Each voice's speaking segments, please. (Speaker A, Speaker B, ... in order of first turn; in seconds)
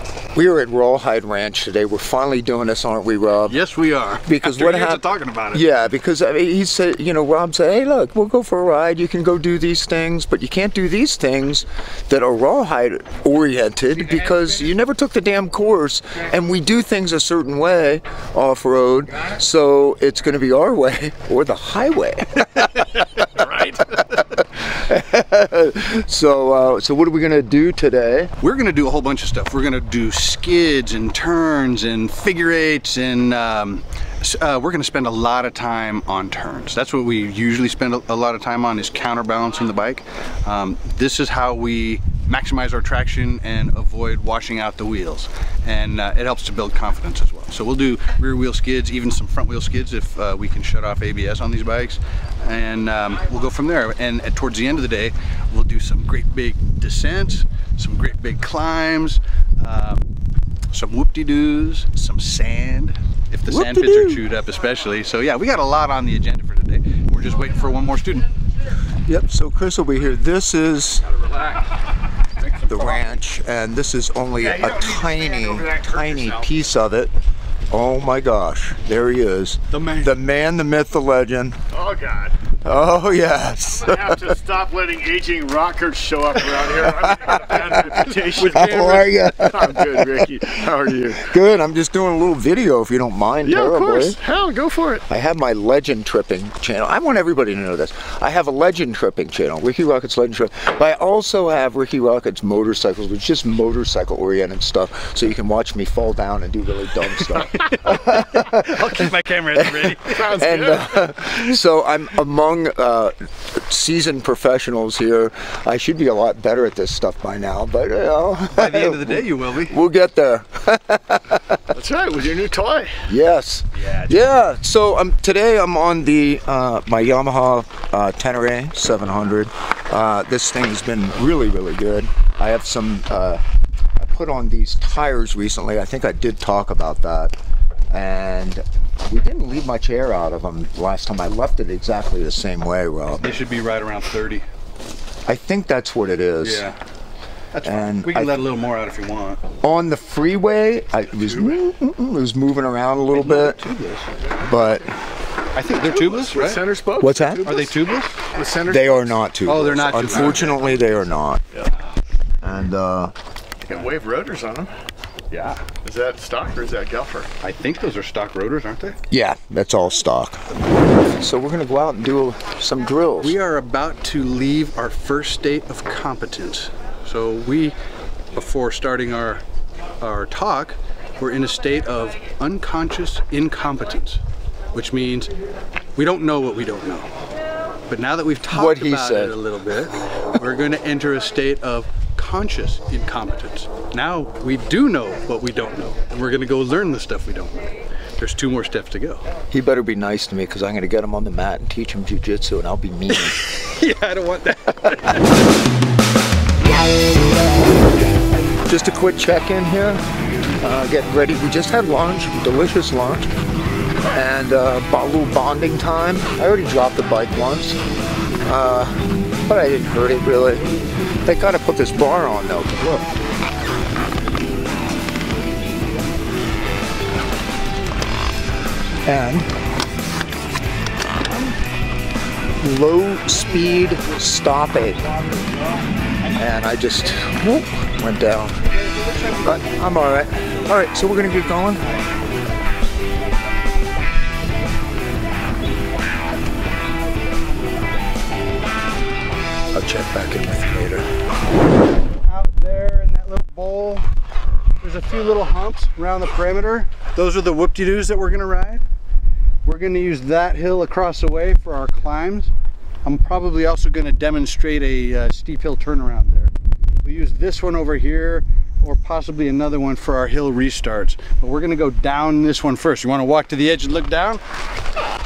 Speaker A: 0.3-3.6, 4.2-22.8, 24.1-28.3, 63.5-64.2, 69.1-71.1, 72.7-77.1, 77.7-81.6, 82.7-84.4, 87.3-94.2, 95.1-109.0, 109.6-121.6, 123.0-133.4, 134.0-137.3, 137.9-143.4, 145.3-146.7, 147.6-148.3, 149.6-153.6, 154.4-154.9, 157.0-157.6, 158.7-161.4, 162.4-163.1, 169.1-170.4, 171.2-173.4, 188.5-189.4, 199.5-203.4, 208.7-210.0, 210.6-213.3, 214.1-217.8, 218.5-220.7, 221.2-223.1, 229.1-229.5, 232.6-235.0, 236.3-238.6, 239.4-241.8, 249.7-251.1
Speaker B: 3.5-5.7, 14.0-14.5, 23.2-24.0, 28.4-60.1, 60.7-68.3, 72.5-73.0, 79.7-80.2, 88.2-88.9, 107.5-110.5, 118.5-119.8, 123.8-124.3, 143.1-144.5, 146.4-146.8, 147.5-149.4, 153.2-154.1, 155.5-156.7, 157.4-158.2, 159.4-160.6, 165.3-165.6, 167.4-169.0, 173.2-177.8, 178.3-179.4, 180.0-184.2, 184.7-185.3, 186.0-187.1, 187.9-197.6, 198.2-199.2, 203.1-205.3, 233.8-234.2, 235.0-236.5, 238.7-242.3, 252.1-254.1, 254.8-258.8, 259.6-262.5, 263.0-274.4
Speaker C: 74.5-76.4, 81.7-82.4, 83.8-91.3, 93.5-95.0, 110.1-110.8, 121.7-123.0, 151.3-151.6, 155.8-159.2, 160.1-160.6, 163.7-164.7, 165.8-167.3